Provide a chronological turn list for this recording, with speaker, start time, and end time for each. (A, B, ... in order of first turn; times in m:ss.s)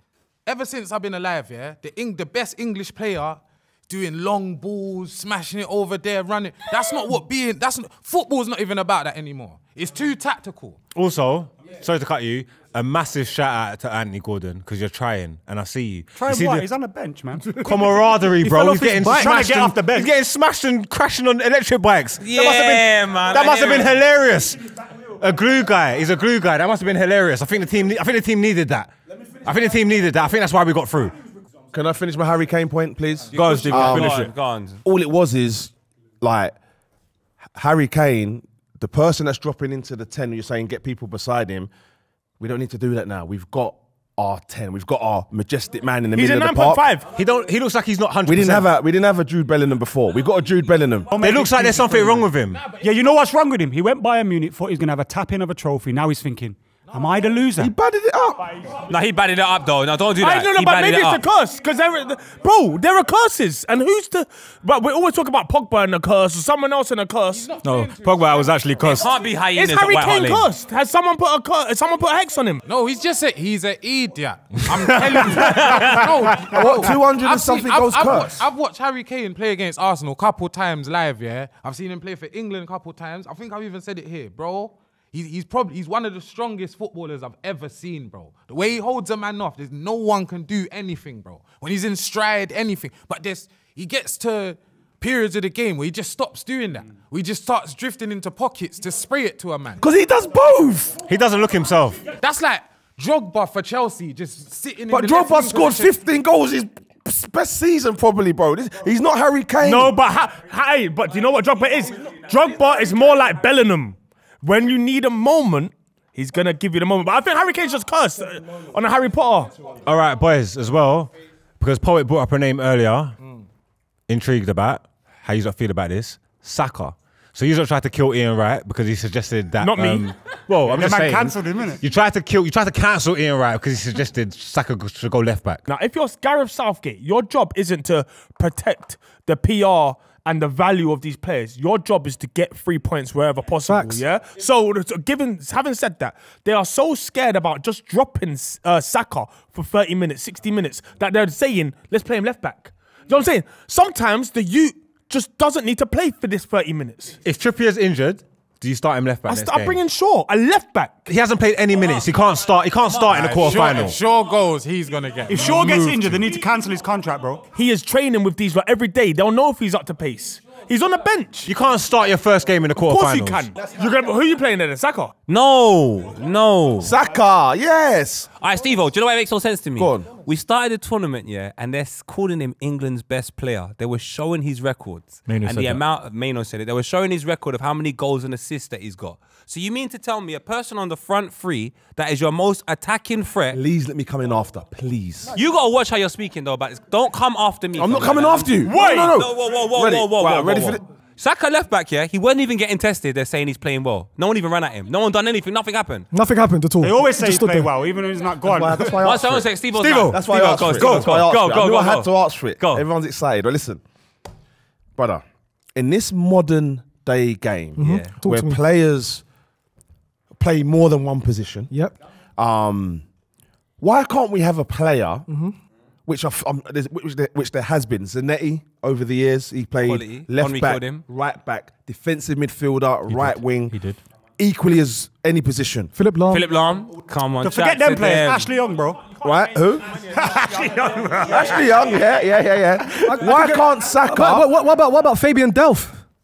0:00.4-0:10.8 A
0:10.9-0:16.7 B
0:16.2-0:17.7 C
0:17.5-0:24.6 B
0:18.2-0:20.1 C
0:22.2-0:24.0 D
0:25.2-0:31.1 B
0:31.7-0:34.3 E
0:33.3-0:34.8 D
0:33.3-0:34.3 F
0:34.8-0:36.5 E
0:37.5-0:41.7 E
0:42.4-0:46.8 E
0:46.2-0:47.1 G
0:47.1-0:48.7 B
0:48.2-0:51.1 E
0:51.1-0:57.7 C
0:51.2-0:52.6 B
0:52.5-0:52.9 A
0:57.6-0:58.5 E
0:58.8-1:01.2 D
1:00.2-1:07.5 G
1:07.3-1:09.1 A
1:07.6-1:09.1 F
1:08.8-1:10.5 D
1:09.5-1:12.6 G
1:12.6-1:39.8 A
1:15.4-1:16.0 D
1:16.5-1:18.4 E
1:39.8-1:41.0 E
1:41.1-1:42.0 B
1:42.2-1:46.0 A
1:44.9-1:49.9 E
1:49.6-1:59.5 G
1:59.8-2:03.2 B
2:04.1-2:15.6 B
2:09.6-2:10.1 G
2:10.6-2:11.8 C
2:15.7-2:37.2 G
2:23.6-2:24.0 H
2:37.2-2:39.8 B
2:39.3-2:41.1 G
2:41.1-2:44.0 B
2:42.9-2:46.1 A
2:45.3-2:47.4 C
2:47.5-2:51.5 G
2:51.4-2:53.5 B
2:52.8-2:55.1 G
2:55.3-2:56.9 D
2:56.8-2:58.3 E
2:58.4-3:13.6 D
2:59.8-3:00.1 E
3:05.3-3:05.8 F
3:13.5-3:15.3 E
3:15.3-3:26.1 D
3:17.8-3:20.8 E
3:18.6-3:19.1 G
3:26.1-3:27.7 H
3:26.8-3:29.0 C
3:28.4-3:33.8 E
3:29.0-3:32.9 D
3:29.8-3:31.0 F
3:35.0-3:35.2 E
3:35.7-3:39.2 E
3:37.8-3:38.6 H
3:40.3-3:41.7 E
3:41.7-3:41.9 H
3:42.4-3:43.0 E
3:43.8-3:45.3 E
3:45.3-3:45.5 H
3:46.0-3:53.7 E
3:49.8-3:51.0 D
3:53.1-3:54.0 F
3:54.4-3:55.9 E
3:55.9-3:56.5 H
3:56.3-3:58.5 D
3:57.4-3:59.1 C
3:59.2-3:59.9 E
3:59.9-4:01.6 G
4:00.2-4:00.5 C
4:01.2-4:04.4 E
4:03.0-4:06.0 H